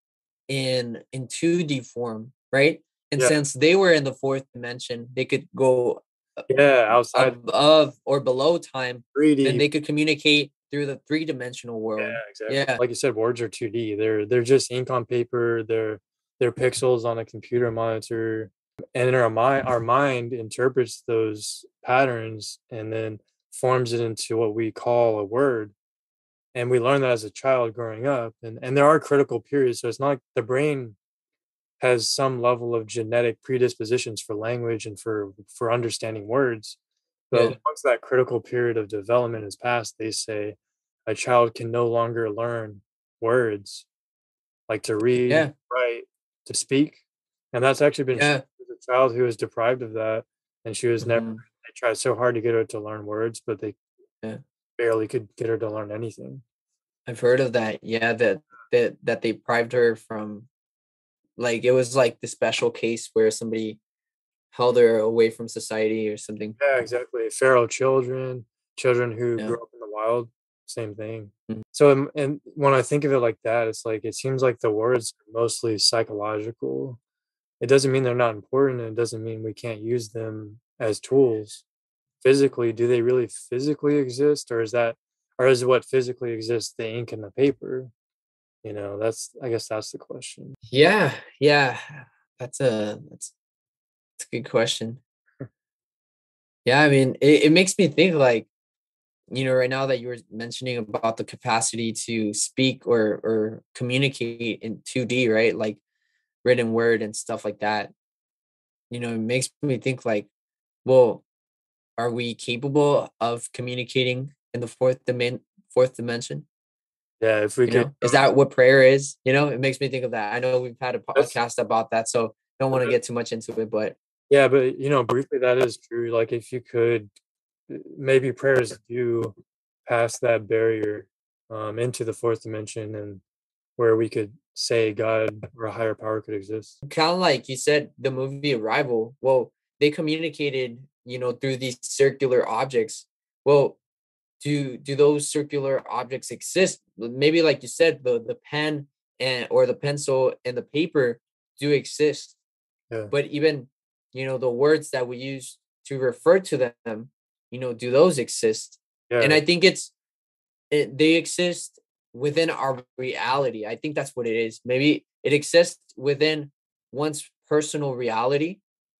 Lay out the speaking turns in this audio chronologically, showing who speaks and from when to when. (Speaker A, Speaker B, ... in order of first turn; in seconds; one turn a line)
Speaker A: 0.5-6.5
Speaker B: 6.5-7.4
Speaker A: 7.1-12.8
Speaker B: 9.1-9.7
Speaker B: 12.0-25.7
Speaker B: 26.5-31.0
Speaker B: 31.8-36.8
Speaker B: 37.3-43.9
Speaker B: 44.7-47.0
Speaker B: 47.5-53.8
Speaker A: 48.1-48.4
Speaker A: 51.0-51.4
Speaker B: 54.8-56.4
Speaker A: 57.1-60.5
Speaker A: 61.4-63.8
Speaker A: 64.5-66.6
Speaker B: 66.6-77.0
Speaker B: 77.6-81.6
Speaker B: 82.2-87.9
Speaker B: 88.6-90.6
Speaker A: 90.7-93.3
Speaker A: 94.2-95.0
Speaker A: 96.7-98.5
Speaker A: 99.3-105.8
Speaker A: 106.4-107.9
Speaker A: 108.9-110.3
Speaker A: 110.8-111.2
Speaker A: 112.0-116.5
Speaker B: 117.2-118.2
Speaker A: 117.7-124.0
Speaker B: 124.3-127.1
Speaker B: 127.7-129.3
Speaker B: 129.9-133.2
Speaker B: 133.8-136.8
Speaker A: 136.8-143.8
Speaker A: 144.4-152.4
Speaker A: 153.1-159.9
Speaker B: 159.1-159.4
Speaker A: 160.7-168.6